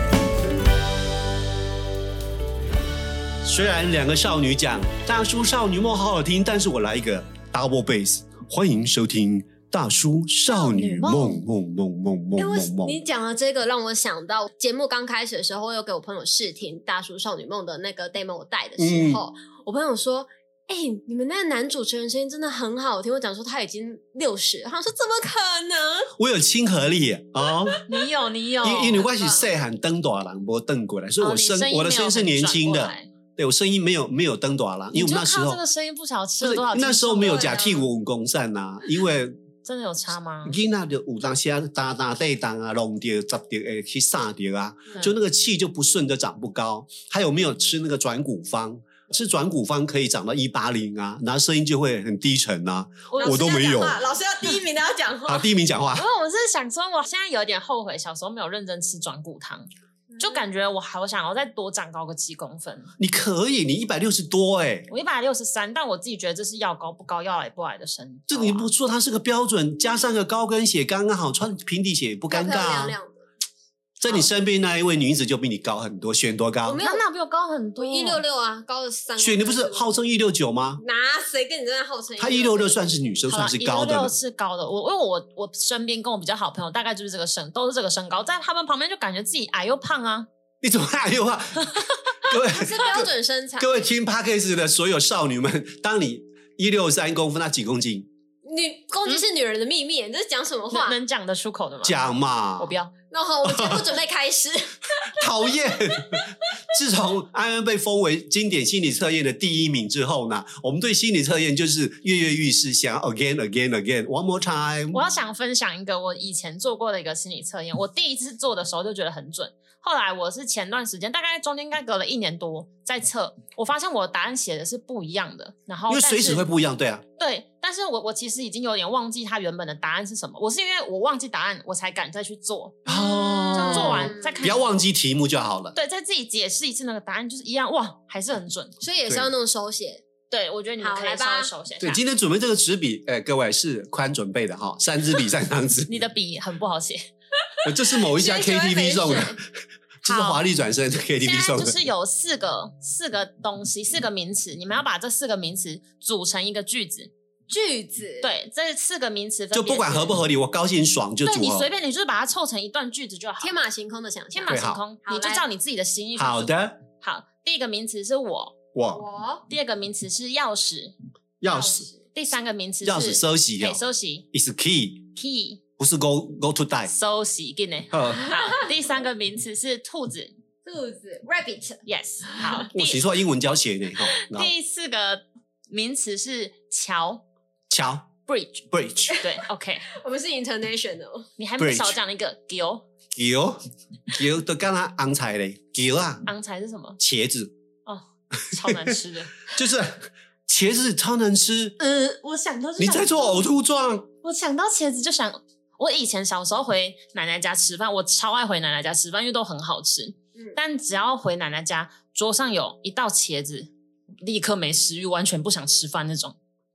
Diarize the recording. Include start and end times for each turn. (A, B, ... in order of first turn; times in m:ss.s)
0:03.4-0:13.0 A
0:10.5-0:11.4 B
0:12.4-0:26.1 C
0:18.8-0:19.2 A
0:26.2-0:27.8 A
0:27.9-0:29.1 B
0:28.6-0:35.6 A
0:29.0-0:29.5 C
0:31.2-0:33.1 B
0:34.9-0:37.6 B
0:36.4-0:39.3 A
0:37.2-0:37.8 C
0:39.6-0:40.6 B
0:40.4-0:54.0 A
0:53.1-0:53.5 B
0:53.2-0:55.5 C
0:55.3-0:56.1 A
0:55.9-0:59.7 B
1:00.1-1:00.4 C
1:00.2-1:02.9 B
1:03.0-1:04.9 A
1:04.9-1:08.7 B
1:08.3-1:13.0 A
1:12.3-1:13.2 C
1:14.0-1:16.8 A
1:16.6-1:17.0 C
1:16.8-1:18.2 B
1:17.8-1:20.0 C
1:19.2-1:20.8 A
1:20.8-1:22.8 C
1:22.2-1:24.2 A
1:23.3-1:30.3 B
1:30.6-1:38.1 A
1:31.7-1:32.2 B
1:32.5-1:33.8 C
1:38.4-1:41.0 C
1:40.7-1:42.0 B
1:41.8-1:42.7 A
1:42.6-1:42.9 B
1:43.1-1:45.2 C
1:43.4-1:43.8 A
1:45.0-1:55.0 A
1:45.9-1:46.2 C
1:54.9-2:06.5 B
2:05.9-2:07.0 A
2:07.2-2:14.7 B
2:12.9-2:15.8 A
2:12.9-2:14.4 C
2:15.7-2:18.8 B
2:18.8-2:20.0 C
2:19.1-2:19.3 A
2:20.3-2:22.0 B
2:20.8-2:21.5 C
2:21.8-2:26.0 A
2:25.9-2:27.0 B
2:27.6-2:29.4 A
2:27.9-2:29.4 C
2:30.0-2:31.8 A
2:30.1-2:30.3 B
2:31.2-2:37.1 B
2:37.5-2:38.3 C
2:38.2-2:40.2 B
2:39.5-2:41.7 A
2:41.2-2:43.6 B
2:43.4-2:45.5 C
2:44.3-2:48.6 B
2:44.5-2:44.8 A
2:46.2-2:46.8 A
2:48.8-2:49.0 A
2:48.9-2:49.5 C
2:49.5-2:50.9 B
2:51.4-2:51.9 A
2:51.5-2:54.3 B
2:52.8-2:53.8 A
2:54.3-2:55.1 A
2:55.2-2:55.6 B
2:55.8-2:56.9 A
2:56.8-3:00.3 B
2:57.9-2:58.5 A
3:00.7-3:01.8 C
3:01.9-3:03.0 B
3:02.4-3:02.7 C
3:02.7-3:04.5 A
3:04.0-3:07.2 B
3:07.7-3:08.1 A
3:08.3-3:09.9 B
3:08.7-3:09.2 A
3:09.9-3:11.2 C
3:11.4-3:12.8 B
3:11.6-3:12.0 A
3:13.1-3:13.6 A
3:14.1-3:16.3 A
3:16.3-3:17.0 B
3:17.0-3:17.5 A
3:17.9-3:19.5 B
3:18.6-3:21.8 A
3:21.8-3:23.5 C
3:22.8-3:24.1 A
3:24.2-3:33.7 B
3:34.2-3:36.4 B